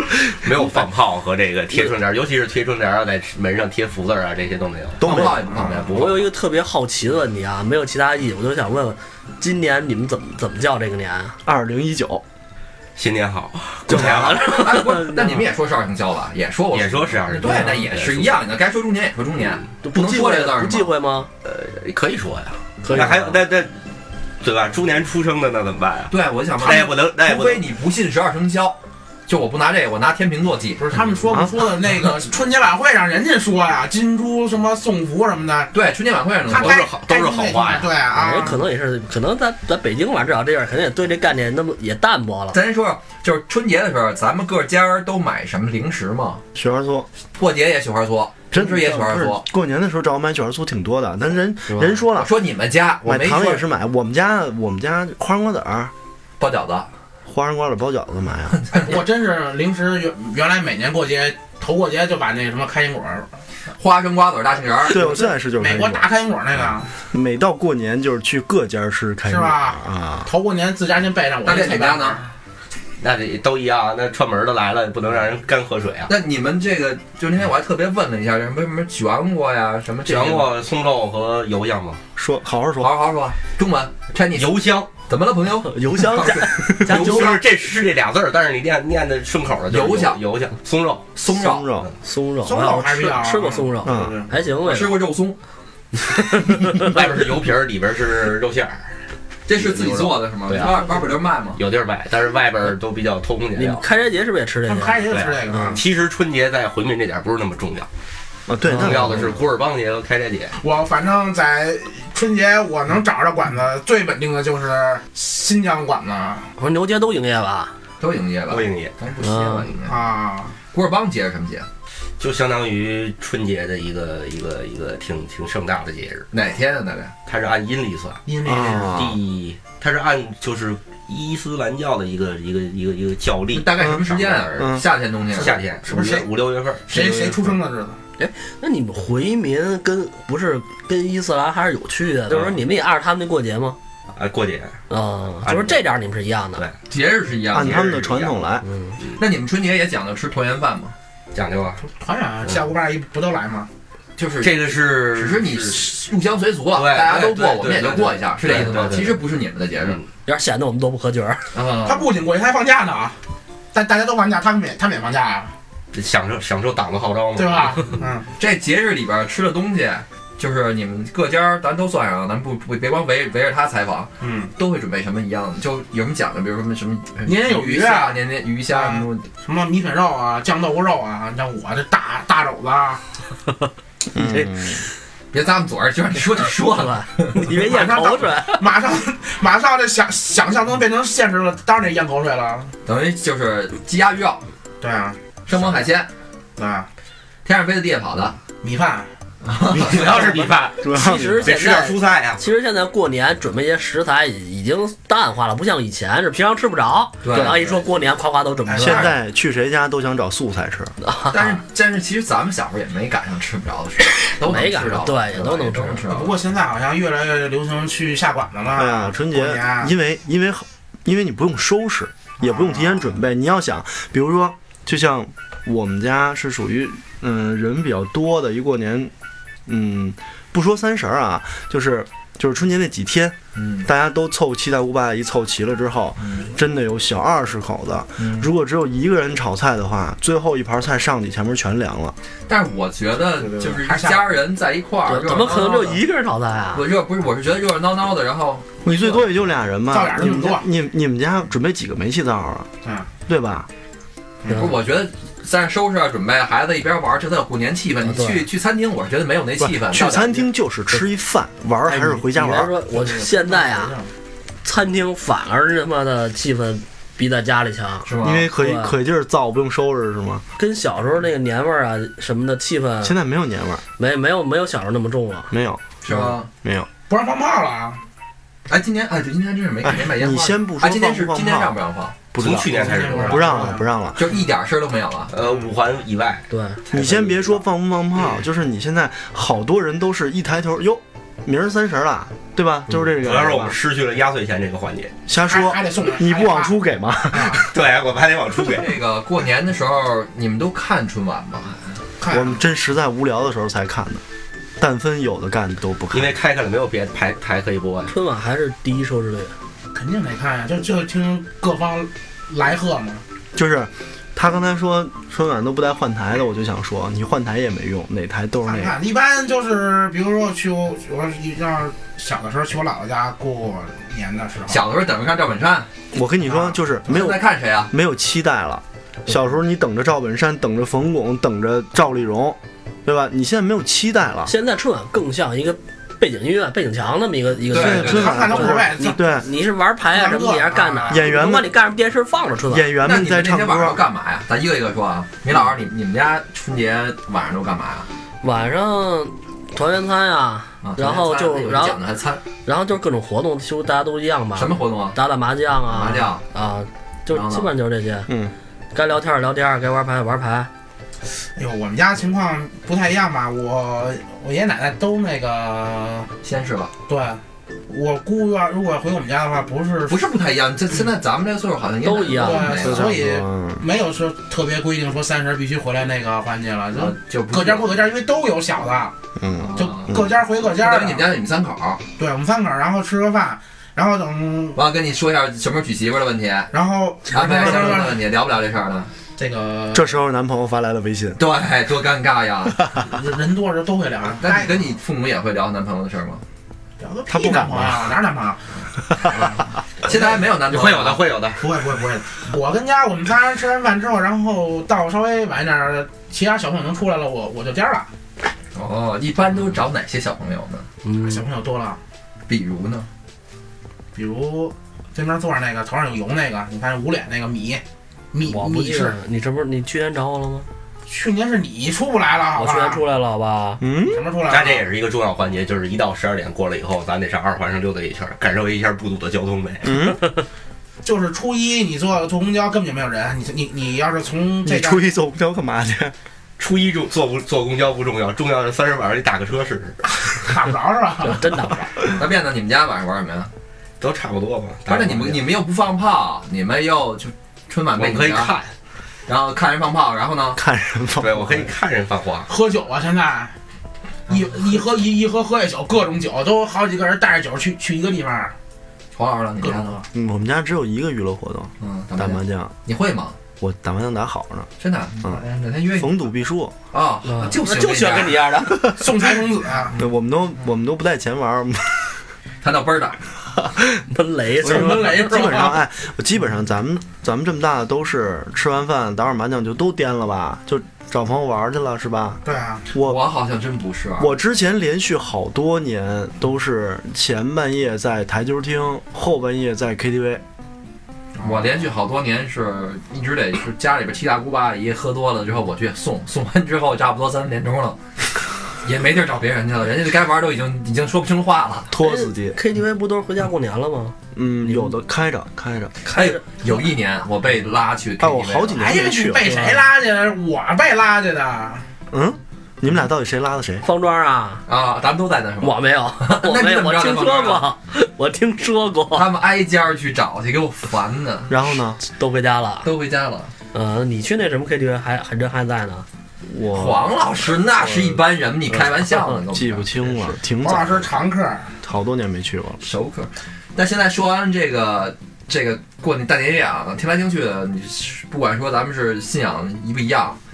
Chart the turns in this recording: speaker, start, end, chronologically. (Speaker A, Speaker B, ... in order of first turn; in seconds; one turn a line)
Speaker A: 0.3-6.1
Speaker B: 5.0-5.5
Speaker C: 5.0-6.2
Speaker D: 5.8-11.3
Speaker B: 11.4-12.2
Speaker A: 12.9-14.6
Speaker D: 13.9-15.4
Speaker C: 13.9-20.9
Speaker A: 16.7-18.4
Speaker D: 19.8-21.3
Speaker A: 21.4-23.7
Speaker D: 22.8-23.4
Speaker A: 24.4-27.7
Speaker C: 26.1-30.9
Speaker E: 30.8-35.7
Speaker C: 35.7-36.8
Speaker E: 36.5-38.6
Speaker A: 36.5-37.9
Speaker D: 38.1-42.6
Speaker C: 42.5-46.4
Speaker B: 46.5-47.1
Speaker C: 47.3-49.4
Speaker B: 48.5-52.3
Speaker D: 51.7-52.0
Speaker C: 52.1-53.6
Speaker B: 53.0-55.9
Speaker C: 56.4-56.9
Speaker B: 57.2-58.6
Speaker C: 58.6-59.0
Speaker E: 58.7-63.3
Speaker C: 63.8-65.0
Speaker B: 64.9-66.1
Speaker E: 65.2-66.9
Speaker B: 67.0-70.3
Speaker E: 69.2-72.3
Speaker C: 71.4-72.2
Speaker A: 73.0-76.1
Speaker C: 76.1-80.5
Speaker A: 80.0-82.0
Speaker B: 82.2-83.0
Speaker C: 82.8-87.4
Speaker A: 84.3-84.9
Speaker D: 85.7-87.4
Speaker B: 85.8-87.2
Speaker A: 86.8-91.1
Speaker C: 89.7-90.2
Speaker C: 91.2-91.7
Speaker B: 91.2-91.9
Speaker D: 92.0-95.0
Speaker E: 92.4-94.3
Speaker B: 93.8-94.2
Speaker C: 94.7-95.4
Speaker D: 96.1-96.8
Speaker A: 96.8-98.9
Speaker C: 99.5-101.6
Speaker A: 99.5-103.8
Speaker D: 103.5-105.8
Speaker E: 104.6-105.8
Speaker A: 105.1-107.9
Speaker B: 108.5-109.3
Speaker A: 108.7-110.5
Speaker D: 108.7-109.1
Speaker E: 110.6-116.5
Speaker D: 116.6-117.7
Speaker C: 118.0-120.0
Speaker A: 118.5-118.9
Speaker D: 119.2-119.7
Speaker E: 119.8-120.6
Speaker C: 120.7-121.7
Speaker A: 122.2-126.3
Speaker C: 126.3-127.1
Speaker A: 127.2-134.7
Speaker E: 128.3-129.0
Speaker B: 128.4-129.2
Speaker C: 133.5-135.6
Speaker B: 133.8-134.9
Speaker A: 135.3-137.5
Speaker E: 135.5-136.3
Speaker E: 136.8-138.0
Speaker D: 138.2-143.8
Speaker A: 142.3-142.6
Speaker A: 144.1-144.8
Speaker D: 144.9-146.7
Speaker A: 145.4-145.9
Speaker C: 146.9-147.8
Speaker B: 147.5-148.7
Speaker A: 147.5-148.4
Speaker D: 148.6-149.0
Speaker C: 149.2-150.9
Speaker A: 151.3-151.8
Speaker E: 151.8-153.7
Speaker C: 154.2-160.0
Speaker A: 154.4-155.9
Speaker A: 156.7-159.2
Speaker D: 160.2-161.5
Speaker C: 161.5-162.1
Speaker E: 161.8-163.2
Speaker E: 163.7-165.5
Speaker A: 165.9-167.9
Speaker E: 167.3-168.3
Speaker C: 168.4-179.3
Speaker E: 174.2-174.5
Speaker E: 177.2-183.0
Speaker B: 184.1-184.8
Speaker C: 185.3-187.4
Speaker D: 186.6-188.7
Speaker E: 187.6-192.7
Speaker C: 192.8-194.4
Speaker E: 194.8-195.7
Speaker C: 195.5-196.1
Speaker E: 196.6-196.9
Speaker C: 197.4-198.4
Speaker E: 198.6-199.1
Speaker C: 199.4-200.4
Speaker A: 199.8-200.8
Speaker B: 199.8-201.5
Speaker D: 200.8-209.1
Speaker A: 201.4-202.4
Speaker C: 207.2-207.8
Speaker B: 207.3-207.6
Speaker E: 208.7-209.1
Speaker B: 208.8-210.9
Speaker D: 211.0-211.6
Speaker C: 211.3-216.4
Speaker D: 214.3-216.1
Speaker E: 216.1-219.9
Speaker B: 218.7-229.1
Speaker E: 222.4-223.1
Speaker B: 229.7-242.2
Speaker C: 233.5-233.9
Speaker C: 236.2-236.5
Speaker C: 238.2-238.5
Speaker C: 242.5-246.0
Speaker E: 243.4-244.3
Speaker D: 245.1-246.8
Speaker C: 246.7-249.2
Speaker B: 248.8-252.7
Speaker E: 249.9-250.7
Speaker B: 253.3-253.7
Speaker E: 254.4-254.7
Speaker C: 254.5-260.4
Speaker D: 258.0-258.5
Speaker B: 259.6-262.7
Speaker D: 261.9-264.0
Speaker E: 262.9-264.1
Speaker D: 264.6-268.9
Speaker C: 268.0-268.5
Speaker B: 268.2-270.4
Speaker D: 270.6-273.2
Speaker B: 273.0-273.8
Speaker D: 274.0-275.5
Speaker B: 275.5-276.9
Speaker C: 276.0-276.5
Speaker E: 277.1-278.0
Speaker C: 278.7-282.1
Speaker B: 279.8-281.8
Speaker B: 282.3-284.3
Speaker A: 282.4-283.6
Speaker E: 282.6-283.9
Speaker C: 284.1-285.3
Speaker A: 285.3-287.6
Speaker D: 286.5-286.8
Speaker B: 286.9-293.8
Speaker A: 293.1-295.1
Speaker B: 295.3-297.6
Speaker E: 295.4-296.8
Speaker E: 297.3-297.7
Speaker A: 297.5-299.0
Speaker C: 298.7-302.0
Speaker E: 302.2-302.5
Speaker B: 302.3-304.2
Speaker B: 304.8-306.4
Speaker A: 306.1-308.1
Speaker D: 308.1-309.5
Speaker E: 309.9-313.2
Speaker B: 313.5-319.0
Speaker E: 318.6-324.9
Speaker C: 324.7-325.9
Speaker B: 326.1-334.5
Speaker E: 326.5-326.8
Speaker C: 327.1-327.9
Speaker D: 334.5-342.9
Speaker C: 337.7-338.3
Speaker B: 337.7-339.5
Speaker E: 338.0-339.2
Speaker E: 340.1-341.3
Speaker B: 341.1-341.7
Speaker B: 342.7-344.0
Speaker C: 343.0-348.1
Speaker D: 348.4-352.0
Speaker C: 350.8-352.4
Speaker D: 352.6-358.3
Speaker C: 354.6-355.2
Speaker C: 355.9-356.4
Speaker C: 357.3-357.7
Speaker B: 358.3-358.5
Speaker D: 358.9-360.7
Speaker E: 361.6-366.3
Speaker C: 366.4-366.9
Speaker E: 367.1-370.2
Speaker C: 370.1-373.1
Speaker D: 372.0-372.8
Speaker E: 372.4-379.1
Speaker B: 372.8-373.9
Speaker C: 376.9-378.0
Speaker B: 379.4-380.3
Speaker C: 379.6-382.0
Speaker E: 379.8-381.3
Speaker E: 382.2-384.8
Speaker C: 384.8-386.7
Speaker E: 386.7-388.2
Speaker C: 387.3-389.1
Speaker E: 389.4-390.1
Speaker B: 389.9-391.4
Speaker C: 391.4-392.9
Speaker E: 393.0-394.8
Speaker C: 394.4-396.4
Speaker E: 397.0-400.2
Speaker B: 397.3-398.2
Speaker C: 400.0-401.2
Speaker A: 400.6-401.6
Speaker E: 401.6-408.1
Speaker C: 408.7-410.9
Speaker D: 411.0-411.4
Speaker E: 411.2-412.0
Speaker C: 412.5-413.1
Speaker E: 414.1-417.8
Speaker E: 418.3-419.2
Speaker D: 418.4-420.6
Speaker E: 421.1-423.0
Speaker D: 422.6-423.8
Speaker B: 423.8-424.2
Speaker E: 424.1-424.8
Speaker A: 424.5-429.9
Speaker B: 429.8-430.2
Speaker E: 431.0-435.1
Speaker B: 434.6-436.1
Speaker A: 436.6-440.0
Speaker E: 440.2-441.6
Speaker D: 441.2-441.9
Speaker C: 442.1-443.5
Speaker A: 444.0-445.5
Speaker C: 444.9-448.6
Speaker A: 448.0-448.7
Speaker C: 449.3-450.6
Speaker B: 450.6-451.7
Speaker A: 451.2-452.5
Speaker E: 452.5-453.6
Speaker E: 454.3-458.6
Speaker C: 459.1-460.0
Speaker E: 459.6-460.1
Speaker B: 460.1-462.7
Speaker C: 461.8-463.4
Speaker B: 463.6-464.7
Speaker C: 464.8-466.3
Speaker B: 466.0-466.8
Speaker C: 466.9-468.6
Speaker D: 467.2-468.9
Speaker E: 468.9-470.0
Speaker B: 469.9-472.2
Speaker C: 472.6-473.2
Speaker D: 474.1-475.3
Speaker B: 474.6-483.2
Speaker E: 474.6-475.8
Speaker E: 482.4-482.9
Speaker C: 483.0-484.3
Speaker B: 484.2-490.4
Speaker C: 491.4-498.0
Speaker E: 491.4-491.7
Speaker C: 498.8-501.9
Speaker B: 501.9-502.6
Speaker D: 502.0-505.0
Speaker B: 504.3-505.9
Speaker D: 506.0-506.7
Speaker C: 506.1-508.8
Speaker B: 508.2-509.8
Speaker E: 508.8-511.9
Speaker D: 509.4-509.8
Speaker B: 512.1-513.9
Speaker D: 513.8-514.6
Speaker C: 514.7-517.7
Speaker D: 515.6-519.3
Speaker C: 519.1-521.6
Speaker B: 521.5-522.0
Speaker D: 522.0-522.9
Speaker C: 522.8-523.5
Speaker D: 523.7-526.1
Speaker B: 526.5-527.1
Speaker C: 526.7-530.3
Speaker B: 527.8-531.1
Speaker E: 530.6-531.8
Speaker B: 531.8-532.8
Speaker C: 532.8-540.4